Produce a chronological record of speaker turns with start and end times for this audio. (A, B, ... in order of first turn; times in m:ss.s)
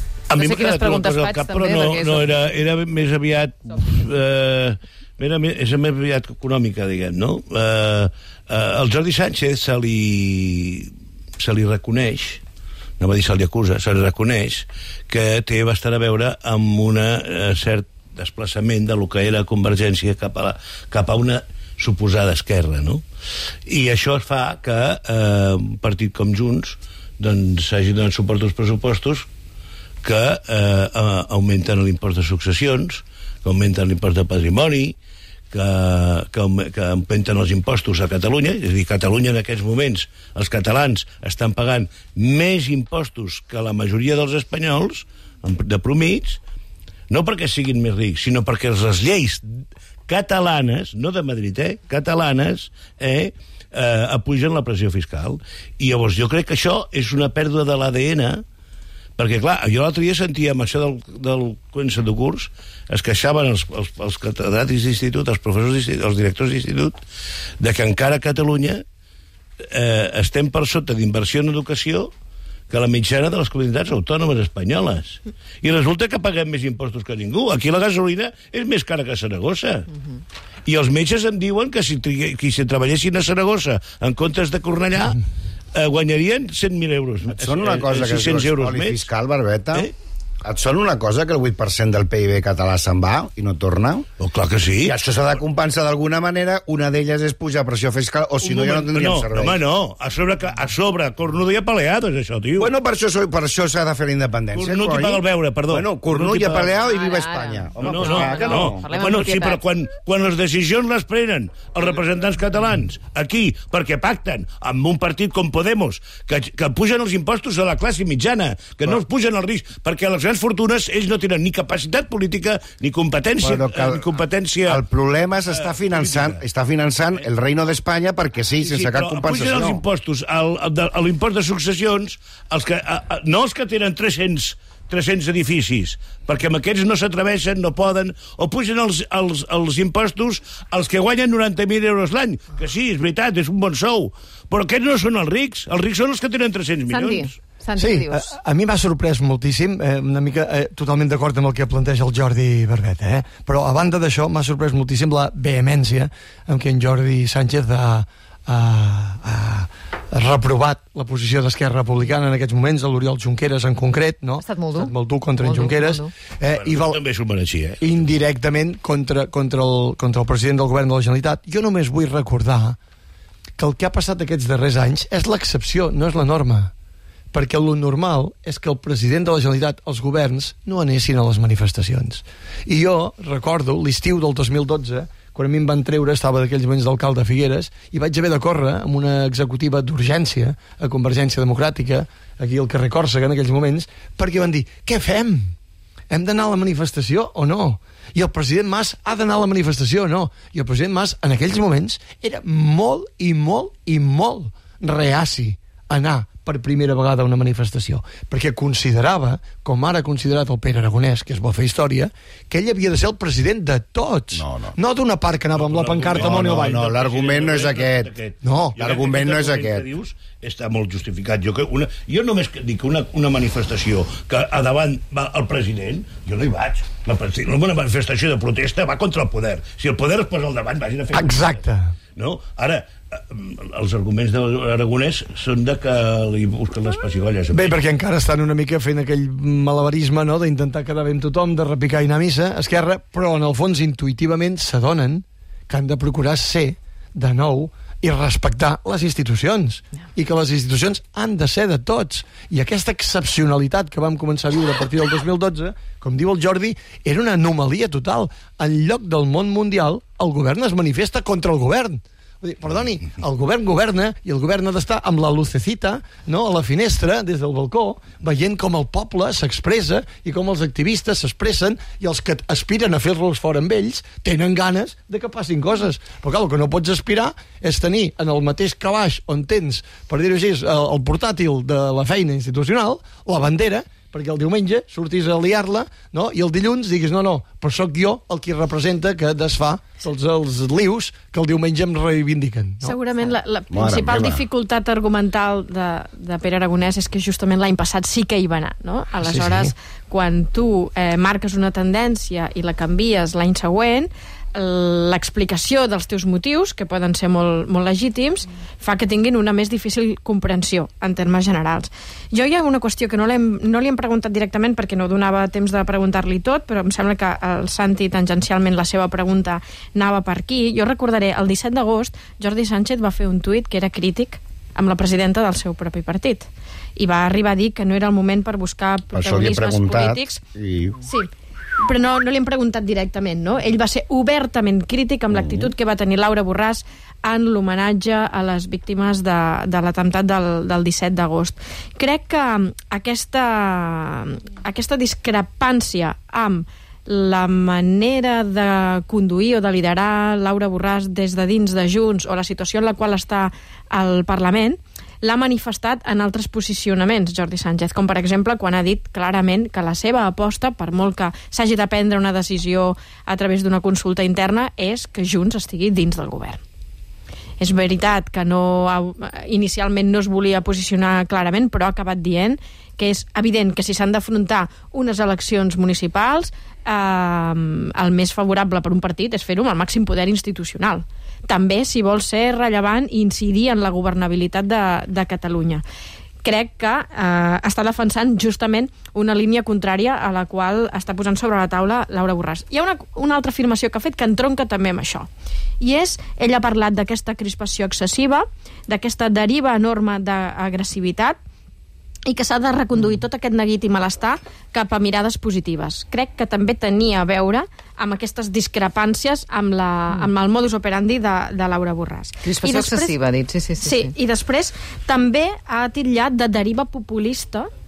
0:00.3-0:12.4 A
0:00.4-0:02.6 B
0:13.0-0:23.0 A
0:23.7-0:29.3 A
0:30.0-0:35.0 A
0:35.5-0:46.4 A
0:47.1-0:49.4 A
0:50.1-0:58.4 A
0:59.2-1:07.0 A
1:07.6-1:08.8 A
1:09.7-1:12.1 A
1:12.7-1:19.9 A
1:20.6-1:25.2 A
1:25.7-1:29.1 A
1:27.3-1:29.9 C
1:30.4-1:34.0 C
1:34.2-1:35.0 A
1:34.8-1:39.6 C
1:38.4-1:42.7 A
1:42.6-1:48.8 C
1:44.5-1:46.7 A
1:46.8-1:49.6 B
1:47.8-2:04.8 A
2:03.4-2:04.1 C
2:04.6-2:09.8 C
2:05.5-2:06.4 A
2:08.6-2:27.4 A
2:26.9-2:28.3 B
2:27.8-2:47.0 D
2:44.4-2:46.1 B
2:46.5-2:48.1 A
2:47.8-2:52.8 D
2:53.6-2:56.7 D
2:57.3-3:15.5 D
3:16.1-3:36.8 D
3:34.3-3:34.7 C
3:35.5-3:51.6 A
3:36.1-3:38.1 C
3:38.4-3:38.8 D
3:38.8-3:39.8 C
3:51.1-3:51.9 D
3:52.2-3:57.8 A
3:57.5-4:53.0 D
4:52.8-5:30.4 E
4:53.7-4:54.4 C
4:59.2-4:59.7 D
5:29.1-5:31.0 C
5:31.8-6:06.6 E
5:35.3-5:35.7 C
6:07.6-6:25.8 E
6:26.4-6:35.3 E
6:35.8-6:41.4 E
6:42.2-6:53.2 E
6:52.4-6:54.1 B
6:53.8-6:57.7 E